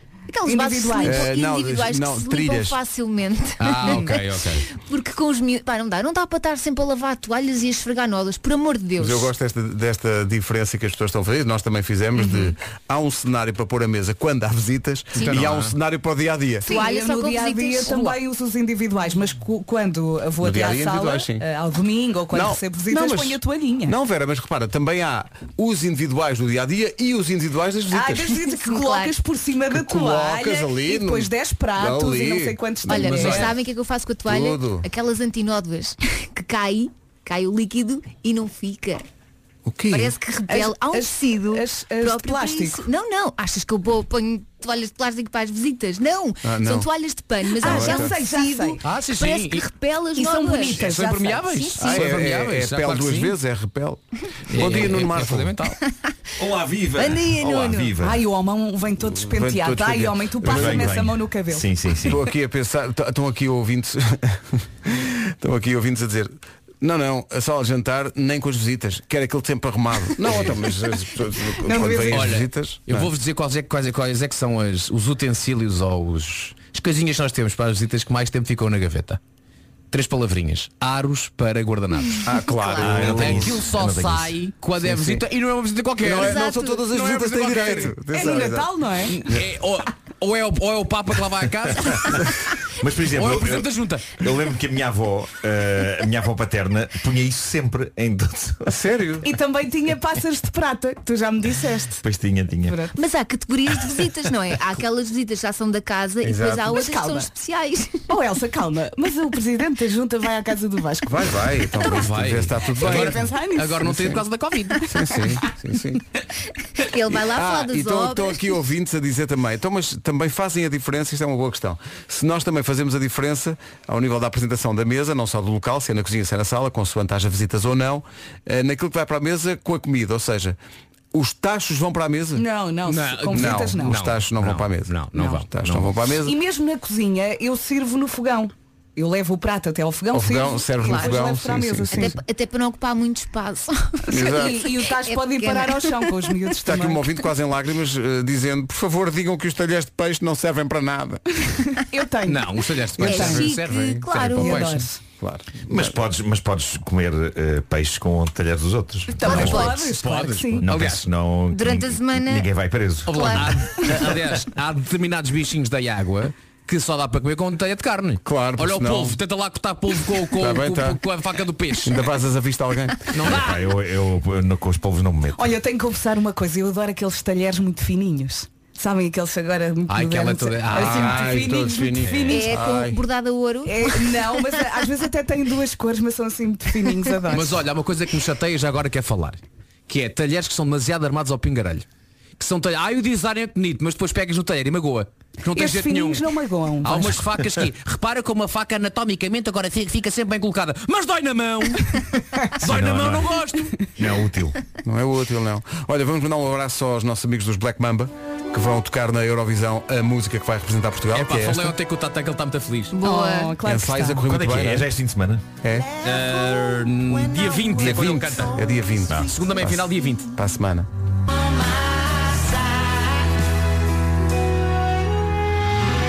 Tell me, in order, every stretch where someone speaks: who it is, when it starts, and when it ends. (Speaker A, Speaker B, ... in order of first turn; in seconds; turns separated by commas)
Speaker A: 0.3-9.3, Speaker B: 0.5-1.3, Speaker C: 1.0-2.8, Speaker D: 3.6-4.7, Speaker B: 3.8-4.1, Speaker C: 9.0-16.8, Speaker B: 12.2-12.5, Speaker D: 15.2-15.7, Speaker B: 16.7-23.9, Speaker A: 16.7-18.2, Speaker C: 20.4-21.4, Speaker C: 22.3-28.4, Speaker B: 27.9-33.5, Speaker A: 28.4-29.1, Speaker C: 29.7-33.5, Speaker A: 32.9-39.0, Speaker D: 33.2-33.5, Speaker C: 34.3-34.9, Speaker C: 39.6-40.1, Speaker A: 39.9-50.9, Speaker B: 40.5-42.8, Speaker C: 46.4-46.9, Speaker B: 47.6-48.8, Speaker C: 47.6-48.1, Speaker D: 48.8-49.6, Speaker B: 50.2-51.5, Speaker D: 50.7-53.4, Speaker A: 51.5-52.1, Speaker C: 51.8-55.8, Speaker D: 54.5-55.8, Speaker E: 56.4-58.2, Speaker A: 57.0-57.9, Speaker B: 58.0-61.7, Speaker C: 59.0-61.0, Speaker E: 60.5-62.3, Speaker C: 62.1-73.1, Speaker B: 71.6-72.3, Speaker D: 72.1-79.2, Speaker D: 79.9-82.3, Speaker C: 82.2-83.6, Speaker A: 82.5-83.1, Speaker E: 82.8-84.4, Speaker D: 83.0-86.5, Speaker C: 84.8-85.2, Speaker C: 86.0-88.8, Speaker A: 86.1-86.9, Speaker D: 87.0-87.9, Speaker B: 88.1-89.2, Speaker D: 89.1-92.2, Speaker E: 92.8-98.8, Speaker D: 93.1-94.2, Speaker C: 98.7-99.3, Speaker B: 99.2-102.0, Speaker E: 102.0-102.8, Speaker B: 102.7-102.9, Speaker A: 103.0-108.0, Speaker C: 106.2-106.8, Speaker B: 106.7-107.3, Speaker B: 108.1-111.5, Speaker C: 111.1-114.2, Speaker D: 111.9-114.9, Speaker B: 112.8-113.9, Speaker C: 114.8-116.0, Speaker A: 116.8-118.6, Speaker C: 117.2-130.6, Speaker C: 131.1-132.5, Speaker B: 132.4-134.0, Speaker D: 132.9-136.0, Speaker C: 133.3-136.4, Speaker B: 136.2-142.2, Speaker C: 140.1-142.2, Speaker A: 140.8-141.1, Speaker A: 141.9-146.2, Speaker B: 144.1-147.1, Speaker C: 144.1-144.6, Speaker C: 146.6-151.4, Speaker B: 151.5-153.5, Speaker D: 152.2-154.9, Speaker A: 153.0-154.6, Speaker C: 153.1-154.0, Speaker B: 154.4-155.0, Speaker C: 155.2-155.9, Speaker E: 155.7-164.4, Speaker B: 159.2-160.7, Speaker A: 159.2-159.9, Speaker D: 159.3-161.1, Speaker A: 161.5-162.5, Speaker D: 163.1-172.0, Speaker A: 163.1-163.7, Speaker C: 168.2-169.2, Speaker C: 170.3-171.0, Speaker C: 171.8-173.0, Speaker D: 173.1-173.6, Speaker E: 173.2-175.5, Speaker B: 175.3-182.6, Speaker D: 179.9-181.4, Speaker C: 180.7-183.0, Speaker A: 182.3-184.6, Speaker B: 183.7-187.5, Speaker D: 187.3-191.8, Speaker D: 192.4-196.3, Speaker B: 195.5-197.2, Speaker D: 196.8-203.9, Speaker E: 202.6-203.4, Speaker E: 204.0-204.6, Speaker C: 204.8-211.8, Speaker D: 211.1-213.0, Speaker A: 212.9-213.6, Speaker B: 213.0-214.3, Speaker C: 213.7-214.9, Speaker E: 214.2-215.5, Speaker C: 215.6-215.9, Speaker D: 216.0-218.6, Speaker C: 217.7-220.9, Speaker E: 219.0-219.3, Speaker D: 219.2-220.3